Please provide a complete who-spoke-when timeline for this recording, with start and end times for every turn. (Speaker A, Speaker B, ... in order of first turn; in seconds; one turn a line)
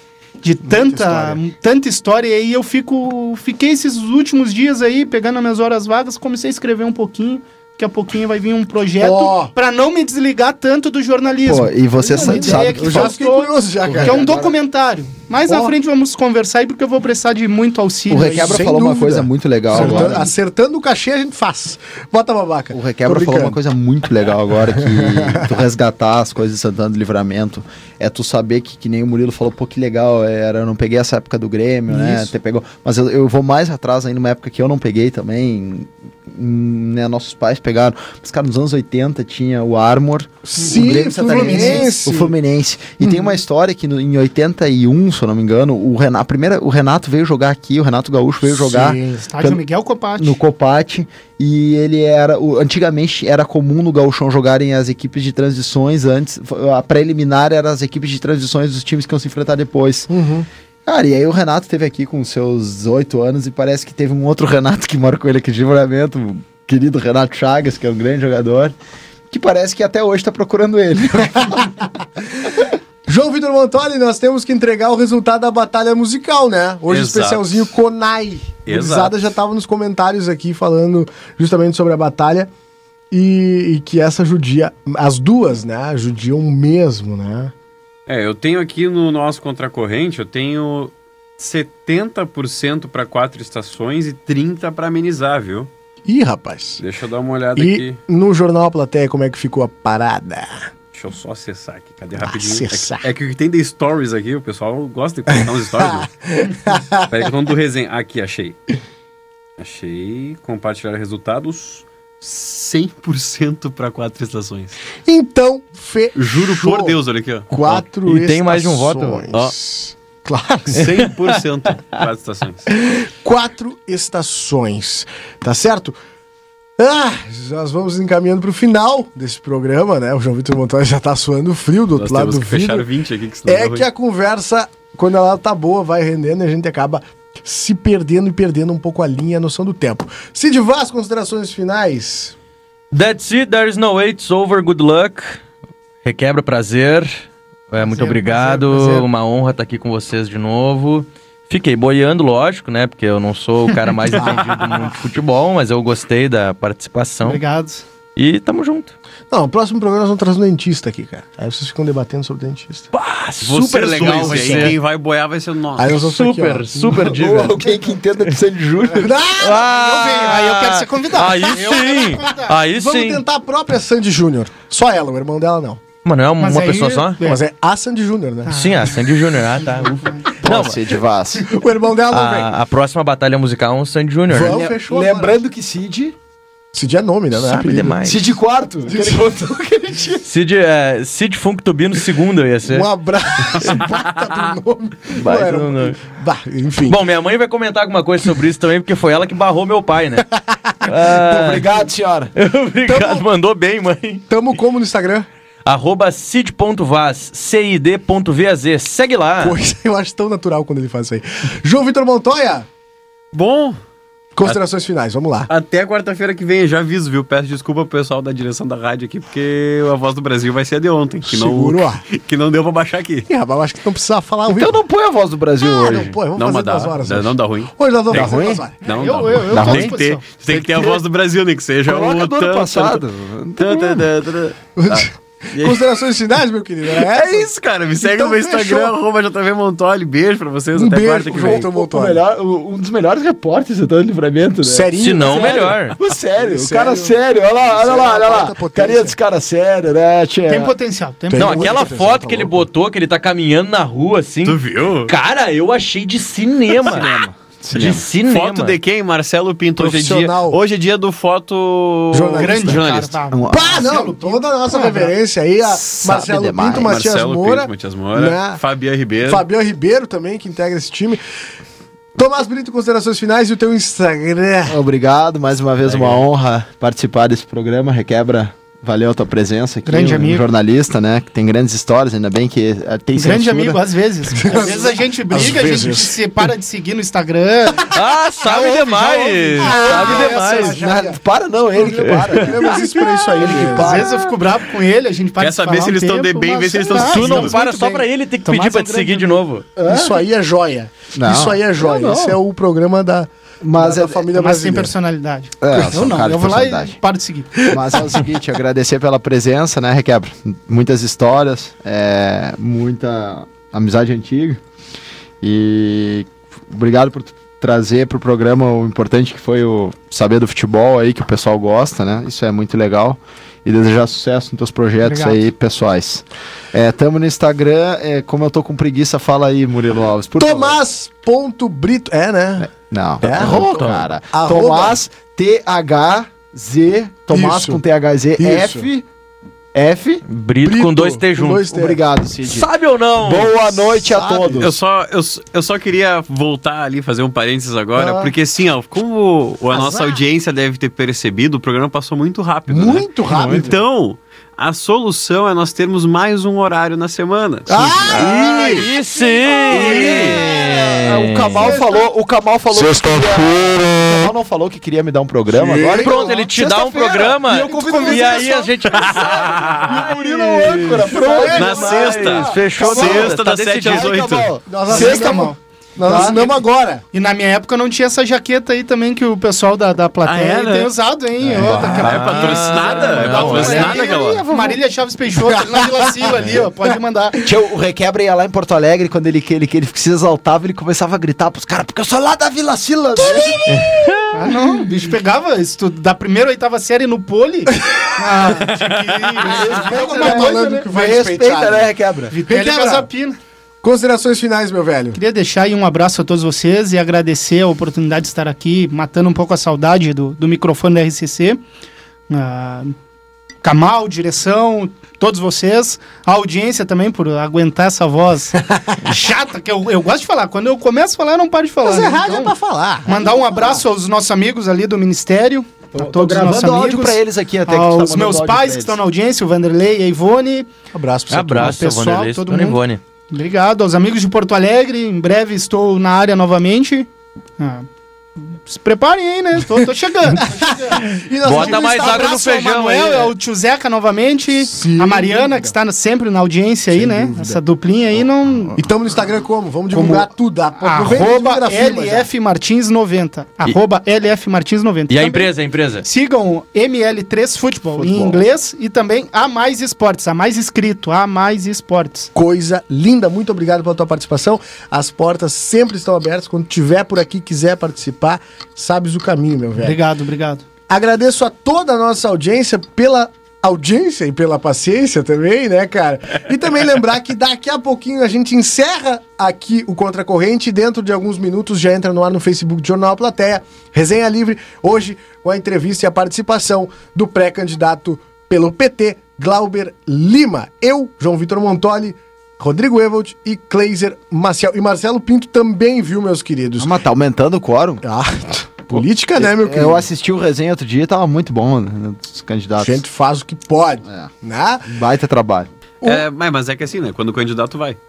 Speaker A: 0.4-18.6
Speaker B: 0.6-1.4
Speaker B: 9.0-9.5
Speaker C: 11.4-13.1
Speaker B: 12.1-14.3
Speaker C: 13.8-14.5
Speaker B: 15.5-15.7
Speaker C: 18.1-20.2
Speaker B: 18.2-23.6
Speaker A: 19.7-20.3
Speaker C: 22.7-49.6
Speaker B: 24.7-25.5
Speaker B: 31.9-32.3
Speaker B: 40.5-42.3
Speaker A: 40.5-42.0
Speaker B: 43.0-43.4
Speaker B: 48.4-49.2
Speaker A: 49.2-50.4
Speaker C: 50.2-60.1
Speaker B: 60.1-60.5
Speaker C: 60.9-68.7
Speaker C: 69.3-71.7
Speaker B: 71.4-71.7
Speaker B: 73.1-82.5
Speaker D: 76.9-77.7
Speaker D: 78.7-79.2
Speaker B: 83.1-87.5
Speaker D: 88.1-95.7
Speaker B: 96.0-96.8
Speaker D: 96.8-98.0
Speaker B: 97.5-100.7
Speaker D: 100.9-106.1
Speaker B: 102.2-103.1
Speaker B: 105.3-107.2
Speaker D: 107.0-108.5
Speaker D: 109.6-114.8
Speaker B: 115.0-117.0
Speaker D: 116.2-117.5
Speaker B: 117.5-121.0
Speaker E: 117.6-119.2
Speaker D: 120.7-122.7
Speaker B: 122.8-126.0
Speaker B: 126.8-132.9
Speaker D: 131.9-133.9
Speaker B: 133.4-142.3
Speaker E: 142.9-145.4
Speaker E: 146.0-157.4
Speaker A: 147.8-149.1
Speaker A: 157.2-157.8
Speaker E: 158.2-158.9
Speaker B: 159.3-162.9
Speaker E: 162.9-164.8
Speaker D: 163.4-166.0
Speaker B: 163.9-164.8
Speaker B: 165.8-167.9
Speaker E: 165.9-167.6
Speaker C: 166.9-169.2
Speaker B: 168.8-170.3
Speaker E: 169.4-173.2
Speaker A: 169.9-172.5
Speaker B: 171.5-175.8
Speaker E: 176.0-177.2
Speaker A: 176.4-177.4
Speaker B: 177.2-178.6
Speaker A: 178.4-180.3
Speaker E: 178.5-180.8
Speaker C: 180.4-181.6
Speaker B: 181.5-182.5
Speaker E: 182.1-184.6
Speaker B: 184.3-185.4
Speaker C: 184.3-186.1
Speaker B: 186.7-188.0
Speaker E: 187.3-188.2
Speaker C: 188.0-190.2
Speaker B: 188.8-189.3
Speaker E: 190.2-192.9
Speaker B: 192.7-197.0
Speaker E: 193.6-193.8
Speaker E: 195.1-196.0
Speaker E: 196.9-200.3
Speaker E: 200.8-201.7
Speaker C: 201.1-202.3
Speaker E: 202.3-204.2
Speaker B: 202.8-203.2
Speaker B: 204.3-205.3
Speaker E: 205.6-209.6
Speaker B: 209.4-212.7
Speaker D: 213.3-213.8
Speaker B: 214.3-215.5
Speaker D: 215.5-223.2
Speaker B: 221.2-222.0
Speaker B: 223.3-224.8
Speaker C: 224.5-226.1
Speaker B: 225.6-228.8
Speaker D: 226.3-233.0
Speaker C: 228.1-228.4
Speaker A: 228.8-230.2
Speaker C: 229.5-229.9
Speaker C: 230.5-231.0
Speaker C: 231.9-234.1
Speaker D: 233.6-235.8
Speaker B: 234.8-238.9
Speaker D: 236.9-241.7
Speaker B: 240.7-242.2
Speaker C: 241.3-250.7
Speaker B: 244.6-245.8
Speaker E: 245.0-245.9
Speaker B: 246.3-249.2
Speaker A: 250.4-251.9
Speaker B: 251.3-252.7
Speaker E: 251.3-257.2
Speaker D: 254.4-255.1
Speaker C: 257.0-258.0
Speaker E: 257.7-258.8
Speaker D: 257.7-263.2
Speaker B: 259.8-260.6
Speaker B: 262.1-262.9
Speaker A: 262.4-265.1
Speaker C: 263.3-264.0
Speaker B: 263.5-268.6
Speaker C: 265.6-266.9
Speaker D: 266.8-269.4
Speaker B: 269.2-271.2
Speaker B: 272.1-274.8
Speaker C: 274.7-283.8
Speaker D: 275.8-276.2
Speaker A: 279.9-280.4
Speaker A: 283.1-287.9
Speaker C: 284.3-284.8
Speaker B: 284.3-286.2
Speaker E: 287.9-290.9
Speaker A: 288.5-289.6
Speaker B: 289.6-291.2
Speaker C: 289.6-294.2
Speaker B: 291.7-294.0
Speaker E: 291.8-293.2
Speaker A: 293.5-299.3
Speaker D: 295.4-297.5
Speaker E: 296.9-299.6
Speaker C: 299.8-300.2
Speaker B: 299.8-304.9
Speaker C: 301.1-302.4
Speaker C: 303.6-304.3
Speaker A: 304.3-307.6
Speaker C: 305.6-306.9
Speaker B: 305.7-306.1
Speaker B: 307.6-308.2
Speaker C: 307.6-314.6
Speaker C: 315.4-330.8
Speaker B: 325.1-325.4
Speaker B: 330.4-332.7
Speaker C: 332.6-339.0
Speaker B: 333.2-335.0
Speaker E: 333.4-334.0
Speaker B: 337.3-337.8
Speaker B: 338.4-338.9
Speaker C: 339.7-340.2
Speaker E: 340.3-341.6
Speaker B: 340.6-342.0
Speaker C: 341.7-344.8
Speaker E: 342.4-343.9
Speaker B: 344.1-344.6
Speaker D: 344.6-357.7
Speaker B: 347.9-348.3
Speaker B: 349.7-350.2
Speaker B: 352.7-353.8
Speaker E: 353.4-353.6
Speaker B: 357.7-360.4
Speaker C: 357.7-368.4
Speaker E: 358.0-361.8
Speaker B: 361.5-362.1
Speaker B: 362.8-363.3
Speaker B: 365.5-366.3
Speaker E: 365.8-374.1
Speaker A: 367.5-368.7
Speaker B: 367.8-368.5
Speaker D: 369.0-369.8
Speaker B: 369.1-372.4
Speaker C: 369.1-375.5
Speaker D: 371.5-374.5
Speaker B: 374.6-377.0
Speaker A: 374.9-375.6
Speaker C: 376.1-376.3
Speaker A: 377.1-387.4
Speaker D: 380.2-380.9
Speaker D: 381.6-384.4
Speaker E: 381.6-384.1
Speaker B: 383.4-384.8
Speaker B: 385.3-386.7
Speaker C: 387.4-394.1
Speaker E: 393.7-394.3
Speaker A: 394.3-400.9
Speaker B: 399.4-403.1
Speaker C: 399.5-402.3
Speaker A: 402.3-403.4
Speaker B: 403.8-405.2
Speaker A: 405.1-411.6
Speaker A: 412.3-412.9
Speaker A: 413.6-422.5
Speaker B: 421.8-423.8
Speaker A: 423.1-430.7
Speaker C: 425.9-429.0
Speaker B: 430.9-431.8
Speaker E: 431.3-433.0
Speaker A: 431.6-437.9
Speaker A: 438.4-448.8
Speaker B: 440.3-443.1
Speaker E: 441.4-443.3
Speaker B: 444.6-445.7
Speaker B: 446.9-447.6
Speaker B: 448.7-452.3
Speaker A: 449.9-455.5
Speaker E: 455.1-456.0
Speaker A: 456.0-462.3
Speaker C: 458.0-458.4
Speaker B: 462.3-470.0
Speaker A: 469.8-470.6
Speaker B: 470.9-496.9
Speaker C: 496.8-498.0
Speaker B: 498.0-500.1
Speaker C: 498.9-503.0
Speaker B: 502.8-504.9
Speaker C: 504.9-505.7
Speaker D: 506.0-508.0